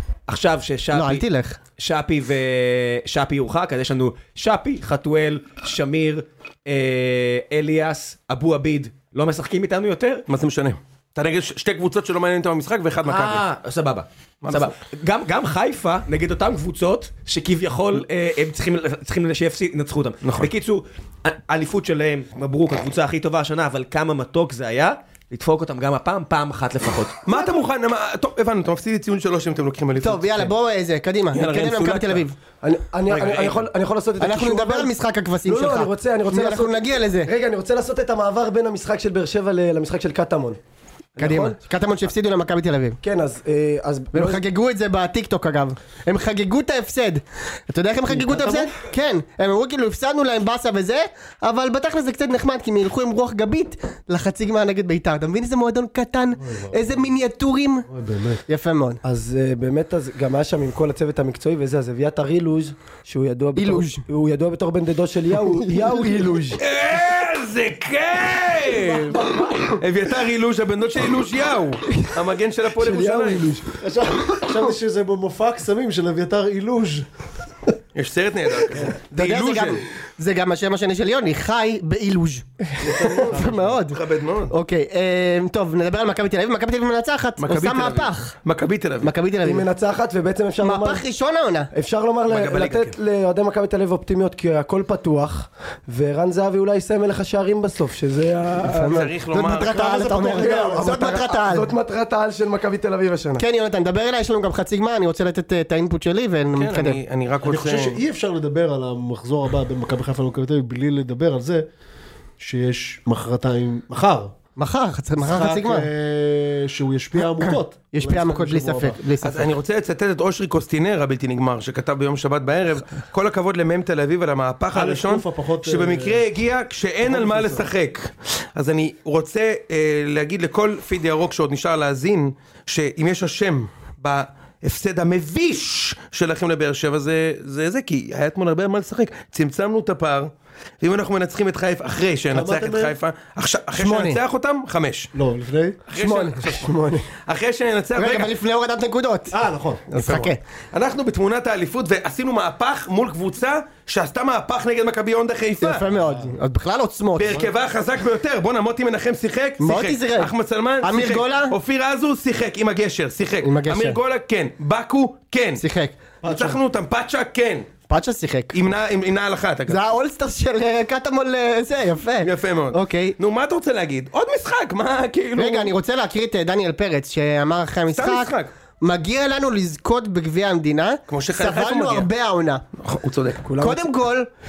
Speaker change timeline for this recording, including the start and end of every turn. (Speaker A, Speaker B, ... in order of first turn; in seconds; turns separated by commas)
Speaker A: 0.3-1.2, Speaker B: 0.9-1.6, Speaker A: 1.8-10.2, Speaker C: 10.3-13.4, Speaker A: 13.0-27.2, Speaker C: 14.4-14.7, Speaker C: 27.2-30.5, Speaker B: 30.0-32.4, Speaker C: 31.3-32.2, Speaker D: 32.6-34.9, Speaker C: 33.1-33.6, Speaker B: 34.2-37.3, Speaker D: 35.4-40.6, Speaker D: 41.2-41.5, Speaker B: 41.2-43.0, Speaker D: 43.0-44.4, Speaker B: 44.1-57.9, Speaker D: 48.1-48.8, Speaker E: 56.4-57.1, Speaker E: 57.9-58.4, Speaker B: 58.5-59.0, Speaker D: 59.0-66.6, Speaker B: 63.5-64.0, Speaker B: 65.7-66.2, Speaker C: 66.6-73.5, Speaker D: 69.1-69.7, Speaker D: 72.8-73.7, Speaker E: 73.8-77.1, Speaker C: 77.9-79.8, Speaker B: 79.1-84.0, Speaker E: 82.8-83.8, Speaker C: 83.9-84.5, Speaker B: 84.5-88.3, Speaker C: 87.4-89.1, Speaker B: 89.0-89.7, Speaker D: 89.4-91.0, Speaker B: 90.6-91.7, Speaker D: 91.7-99.1, Speaker C: 92.3-92.9, Speaker B: 98.6-101.7, Speaker C: 98.8-99.8, Speaker E: 99.5-101.2, Speaker D: 99.8-103.4, Speaker B: 103.4-107.0, Speaker C: 106.5-108.0, Speaker E: 107.4-111.7, Speaker E: 112.4-114.3, Speaker B: 114.5-115.9, Speaker E: 115.2-119.0, Speaker B: 117.4-119.5, Speaker C: 119.2-145.1, Speaker E: 124.7-126.2, Speaker E: 127.0-127.7, Speaker E: 142.3-142.9, Speaker B: 143.7-144.2, Speaker E: 145.1-145.8, Speaker C: 145.9-148.3, Speaker B: 145.9-147.0, Speaker B: 147.9-149.3, Speaker E: 149.3-150.3, Speaker B: 149.9-150.4, Speaker C: 150.7-155.8, Speaker B: 155.6-157.4, Speaker E: 156.0-156.3, Speaker C: 157.2-165.6, Speaker B: 159.6-161.6, Speaker B: 163.4-164.0, Speaker B: 165.6-166.0, Speaker E: 166.2-166.6, Speaker C: 166.2-167.7, Speaker B: 167.9-168.6, Speaker C: 168.5-169.8, Speaker B: 169.7-173.2, Speaker C: 172.2-175.7, Speaker B: 175.3-182.6, Speaker C: 177.9-178.5, Speaker C: 181.1-182.1, Speaker C: 182.8-183.4, Speaker D: 183.4-183.9, Speaker B: 183.6-184.3